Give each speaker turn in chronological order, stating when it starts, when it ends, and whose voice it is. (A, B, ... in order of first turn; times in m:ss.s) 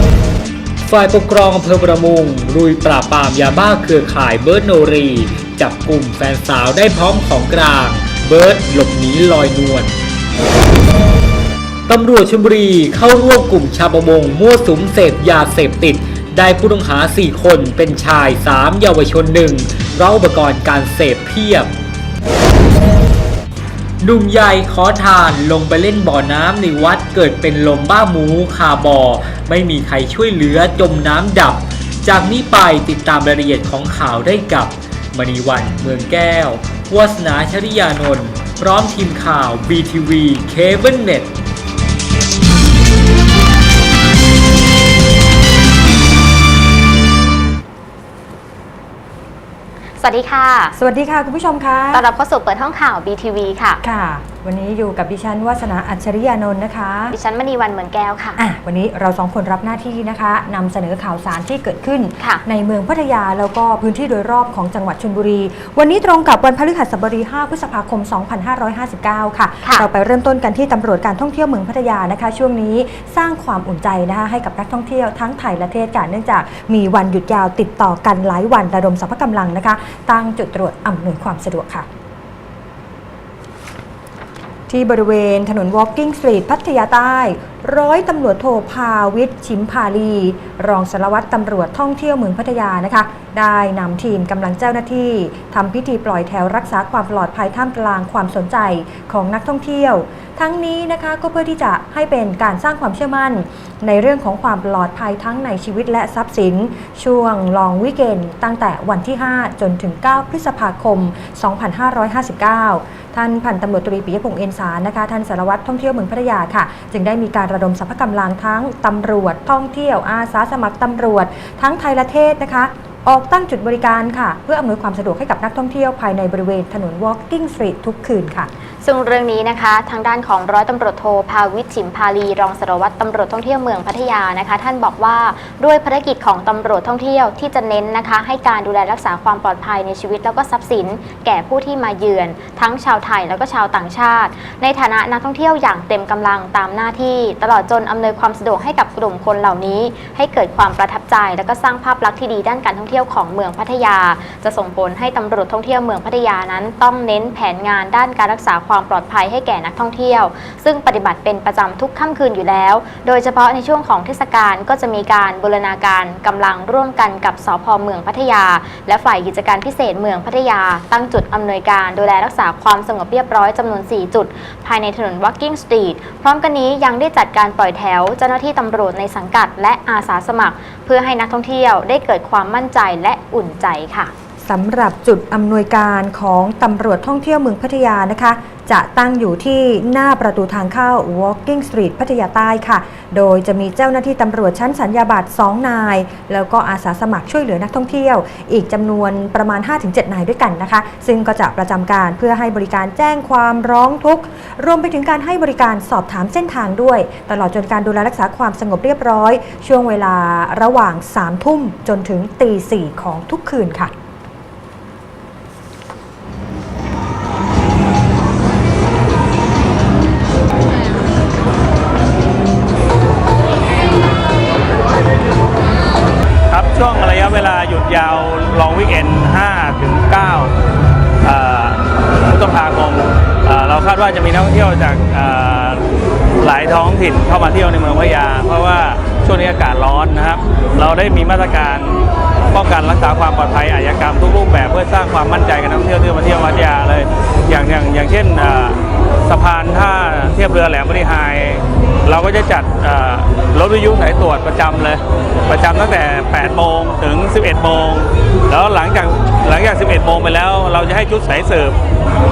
0:00.8-0:09.9 A
0:11.9-0:21.7 A
0:24.0-0:41.3 A
0:50.0-0:50.7 B
0:50.8-0:52.0 C
0:51.9-0:53.8 B
0:53.8-0:57.2 C
0:57.1-0:58.4 B
0:58.4-1:21.8 C
1:02.2-1:02.4 B
1:24.7-2:08.5 C
2:08.8-3:04.1 B
3:04.4-3:33.9 C
3:46.5-3:50.5 D
3:51.2-3:55.8 D
3:56.4-4:21.8 D